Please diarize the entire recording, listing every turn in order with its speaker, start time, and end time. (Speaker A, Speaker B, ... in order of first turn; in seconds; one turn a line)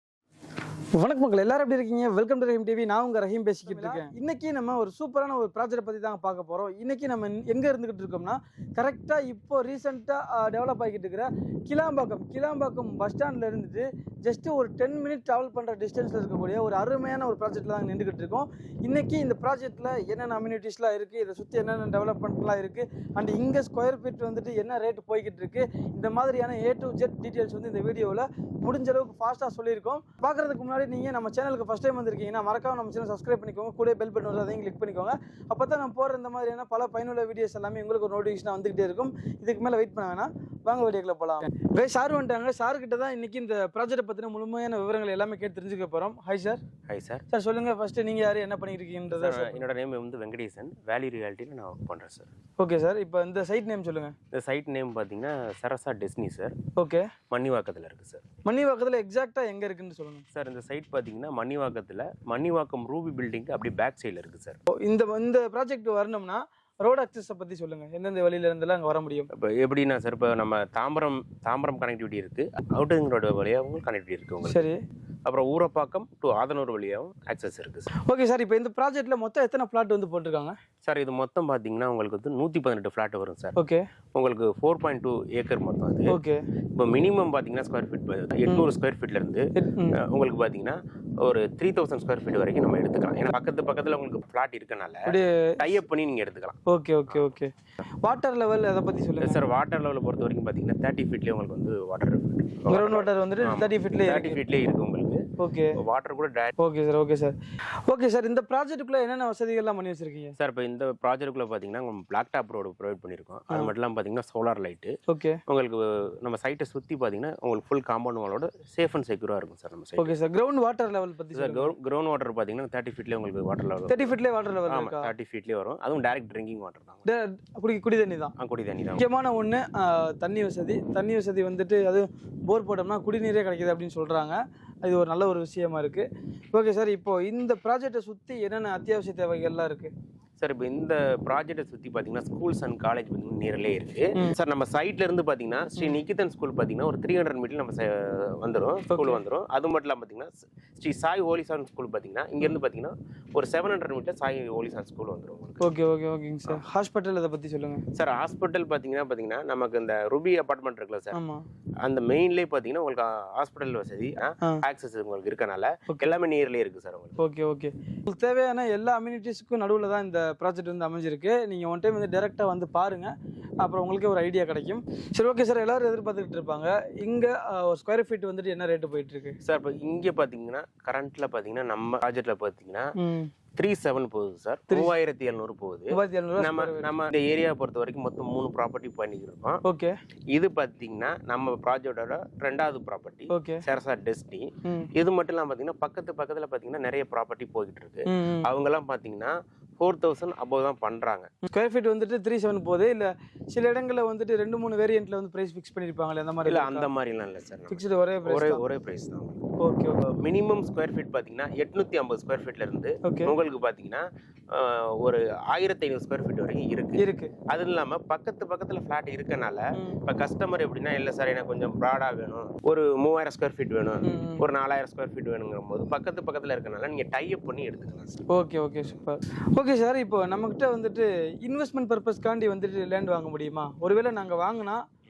Speaker A: 1.0-46.6
Speaker B: 46.9-47.2
Speaker A: 47.3-49.6
Speaker B: 49.1-52.3
Speaker A: 52.6-54.1
Speaker B: 54.3-56.5
Speaker A: 56.8-57.1
Speaker B: 57.3-58.2
Speaker A: 58.5-60.2
Speaker B: 60.4-64.6
Speaker A: 64.7-69.3
Speaker B: 69.3-74.7
Speaker A: 74.5-74.8
Speaker B: 75.3-77.9
Speaker A: 78.1-80.6
Speaker B: 80.8-83.6
Speaker A: 83.6-83.8
Speaker B: 84.2-86.2
Speaker A: 86.1-86.4
Speaker B: 86.8-96.6
Speaker A: 89.6-90.0
Speaker A: 95.1-95.7
Speaker A: 96.7-97.5
Speaker A: 98.0-99.4
Speaker B: 99.2-105.2
Speaker A: 102.7-104.4
Speaker A: 105.4-105.8
Speaker B: 105.8-106.5
Speaker A: 106.6-107.3
Speaker A: 107.9-110.4
Speaker B: 110.4-115.0
Speaker A: 115.1-115.4
Speaker B: 115.5-120.1
Speaker A: 120.0-121.7
Speaker B: 121.3-124.2
Speaker A: 123.9-125.1
Speaker B: 124.7-127.1
Speaker A: 127.0-128.3
Speaker B: 128.4-129.0
Speaker A: 129.0-139.9
Speaker B: 140.4-155.7
Speaker A: 148.9-149.2
Speaker A: 155.6-157.8
Speaker B: 157.9-161.2
Speaker A: 161.1-161.4
Speaker B: 161.8-167.2
Speaker A: 167.2-179.4
Speaker B: 179.4-182.9
Speaker A: 183.0-183.3
Speaker B: 183.6-189.6
Speaker A: 185.9-186.9
Speaker A: 189.7-189.9
Speaker B: 190.3-201.3
Speaker A: 193.3-193.6
Speaker A: 194.7-194.9
Speaker A: 198.1-198.5
Speaker A: 201.4-206.9
Speaker B: 206.4-209.4
Speaker A: 207.7-208.6
Speaker A: 209.6-210.0
Speaker B: 210.0-228.3
Speaker A: 213.0-213.3
Speaker A: 217.0-217.3
Speaker A: 219.8-220.0
Speaker A: 224.0-224.4
Speaker A: 228.3-234.8